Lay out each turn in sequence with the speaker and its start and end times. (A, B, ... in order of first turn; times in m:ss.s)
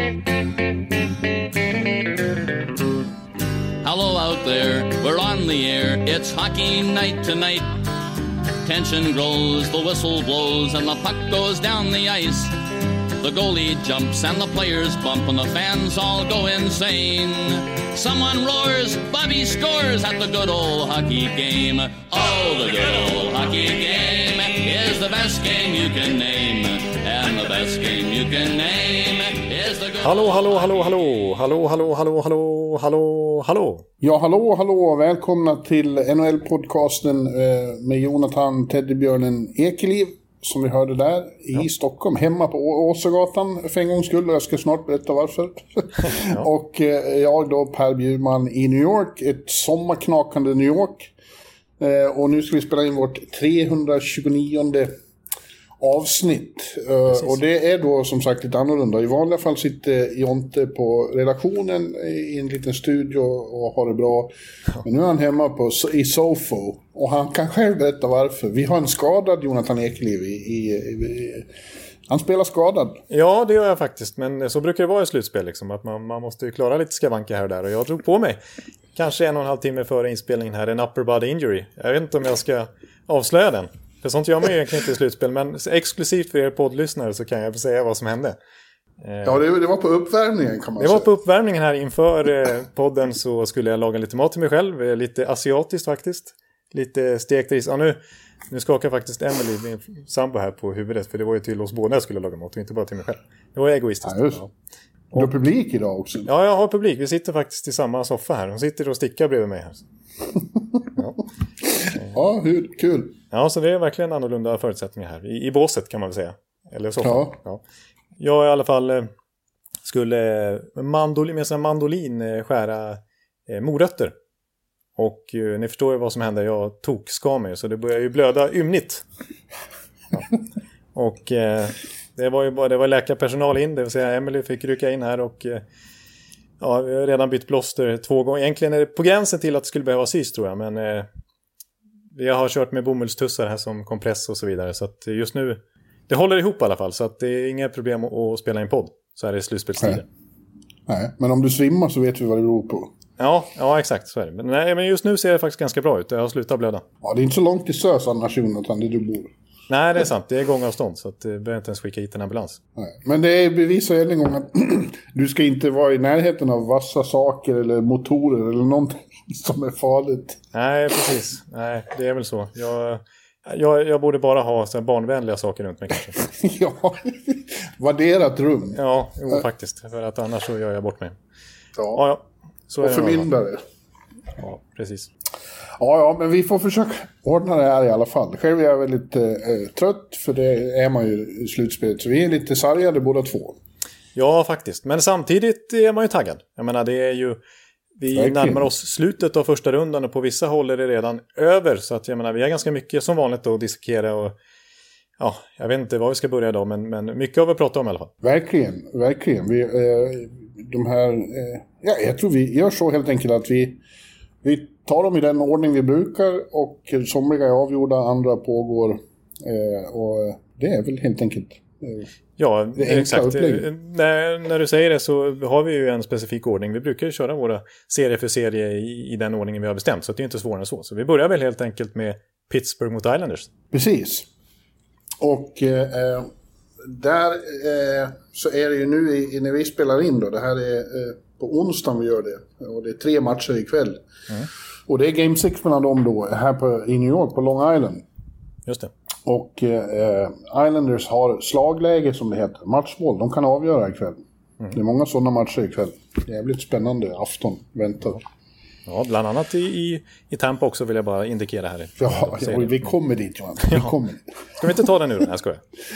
0:03.8-0:07.8 A
0:08.6-0:12.5 A
0:13.2-0:30.1 A
0:30.0-0:33.8 B
0:34.0-0:51.1 C
0:51.8-0:54.9 C
0:55.8-1:11.5 C
1:12.1-1:13.0 C
1:13.1-1:18.4 B
1:18.9-1:28.4 B
1:29.0-1:29.4 B
1:29.2-1:31.1 C
1:30.8-1:38.0 B
1:38.5-1:44.5 B
1:44.0-1:44.4 C
1:45.1-1:46.3 C
1:46.2-1:49.8 B
1:50.9-1:51.2 B
1:51.8-1:53.2 C
1:53.3-1:57.6 B
1:57.0-1:57.4 C
1:58.2-1:59.1 B
1:59.8-2:04.1 B
2:05.0-2:09.0 B
2:10.9-2:15.6 B
2:16.6-2:21.1 B
2:22.1-2:30.0 B
2:30.9-2:32.9 C
2:33.2-2:36.8 B
2:37.0-2:39.3 C
2:39.7-2:42.6 B
2:42.8-2:50.4 C
2:50.5-2:56.2 B
2:56.2-2:58.8 C
2:58.7-3:01.2 B
3:01.8-3:02.0 C
3:01.9-3:03.3 B
3:02.8-3:03.6 C
3:04.4-3:05.1 B
3:05.8-3:13.6 C
3:14.1-3:17.4 B
3:18.0-3:24.3 B
3:18.1-3:18.7 C
3:25.2-3:28.1 B
3:28.2-3:33.8 C
3:34.4-3:42.1 C
3:42.4-3:53.5 B
3:42.7-3:43.7 C
3:53.7-3:54.3 C
3:55.2-3:56.3 C
3:56.8-4:04.0 C
4:04.9-4:08.0 C
4:08.6-4:08.9 B
4:09.2-4:14.2 C
4:14.7-4:18.2 C
4:18.8-4:22.9 B
4:22.0-4:24.2 C
4:24.6-4:25.6 B